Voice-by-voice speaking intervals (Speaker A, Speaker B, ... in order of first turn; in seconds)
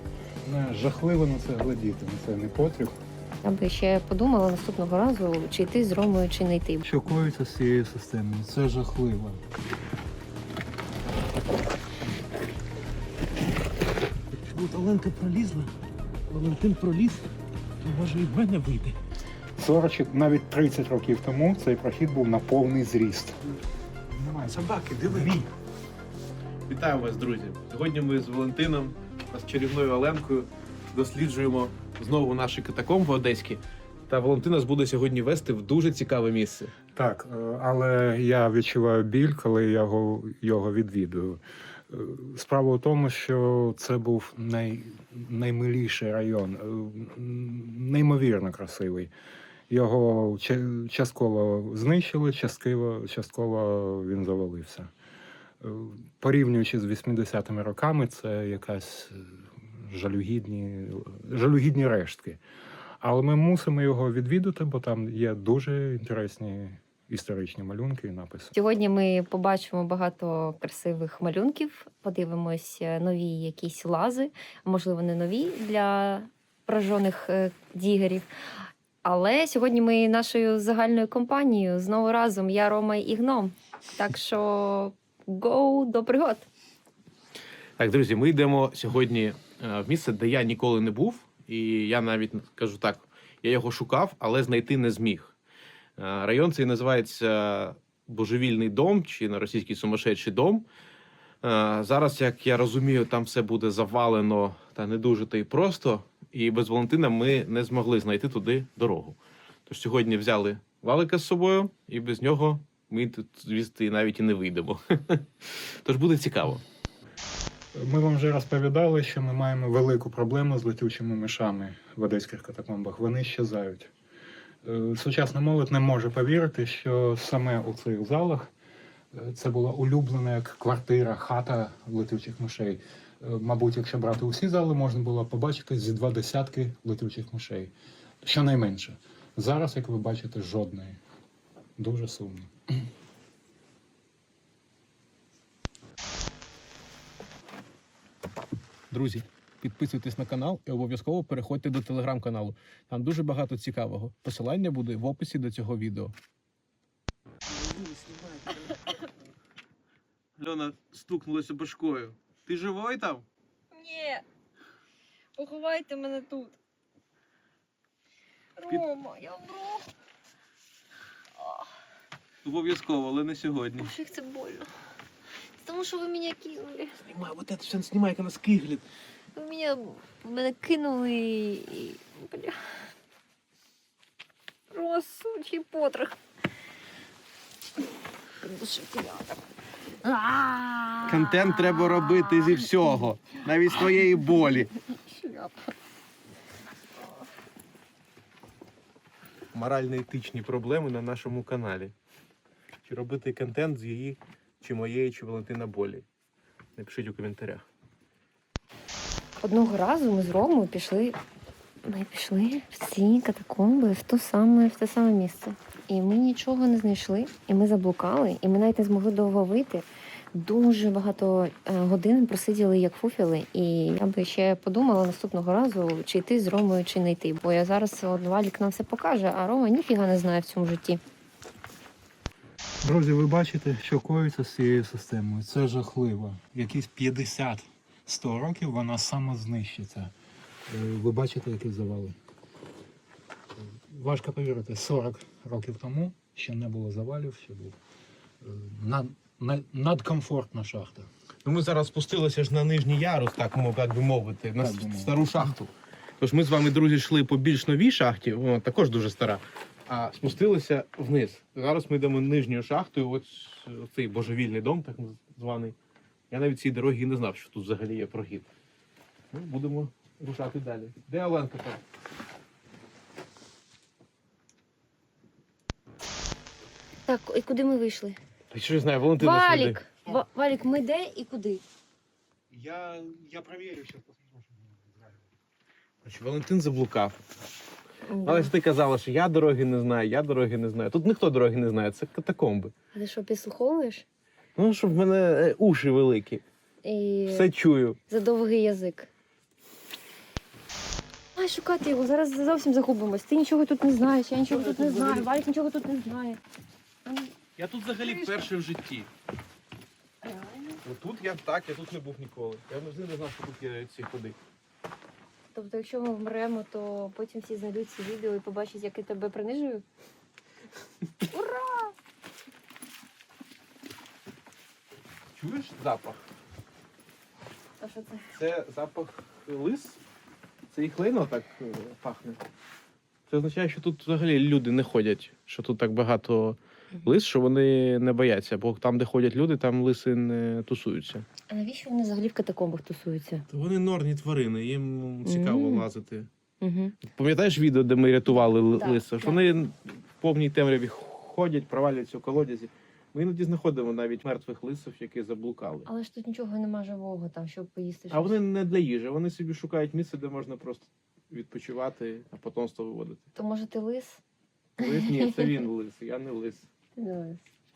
Speaker A: 0.4-3.0, 6.8-9.4, 19.6-25.4, 36.9-49.1, 49.7-54.9, 55.6-62.4, 63.0-68.5, 117.7-123.9, 124.6-128.5, 129.1-141.0, 141.8-142.9, 232.8-240.1, 240.7-242.2, 243.6-247.8, 248.4-251.1, 254.6-255.2, 282.5-285.3
Speaker B: 3.4-6.8, 68.5-78.3, 79.0-86.5, 163.7-164.2, 165.4-166.6, 168.6-169.9, 171.4-171.7, 173.8-174.7, 175.6-177.0, 179.3-182.9, 184.7-186.2, 188.4-189.4, 190.0-192.8, 194.9-195.7, 209.4-211.2, 211.8-231.0, 277.1-278.2, 279.2-281.6, 288.1-288.5, 292.9-294.1, 296.8-297.5, 298.1-299.1, 301.4-306.4, 307.1-307.3, 308.0-308.3, 310.2-310.8, 315.5-319.8, 321.3-321.9, 327.8-328.3, 341.5-343.4, 345.2-345.9, 346.6-347.0, 348.7-349.5, 355.9-358.4, 363.4-364.2, 364.8-365.6, 366.9-367.4
Speaker C: 14.3-15.7, 16.3-17.3, 17.8-19.0, 24.5-25.5, 26.7-36.7, 87.8-95.3, 96.0-100.7, 101.4-115.3, 115.8-116.6, 148.9-156.2, 157.5-158.8, 160.4-163.2, 172.4-173.9, 177.0-178.8, 191.0-194.7, 199.5-201.9, 202.8-206.1, 206.8-207.7, 251.4-265.8, 266.3-268.5, 269.3-271.8, 278.5-279.8, 286.0-287.2, 288.2-292.7, 294.6-296.4, 297.3-298.0, 304.4-305.3, 307.6-309.1, 310.8-314.4, 325.3-326.2, 328.3-330.0, 330.7-332.4, 333.3-341.2, 343.5-346.3, 347.0-355.9, 358.1-363.2, 364.8-366.7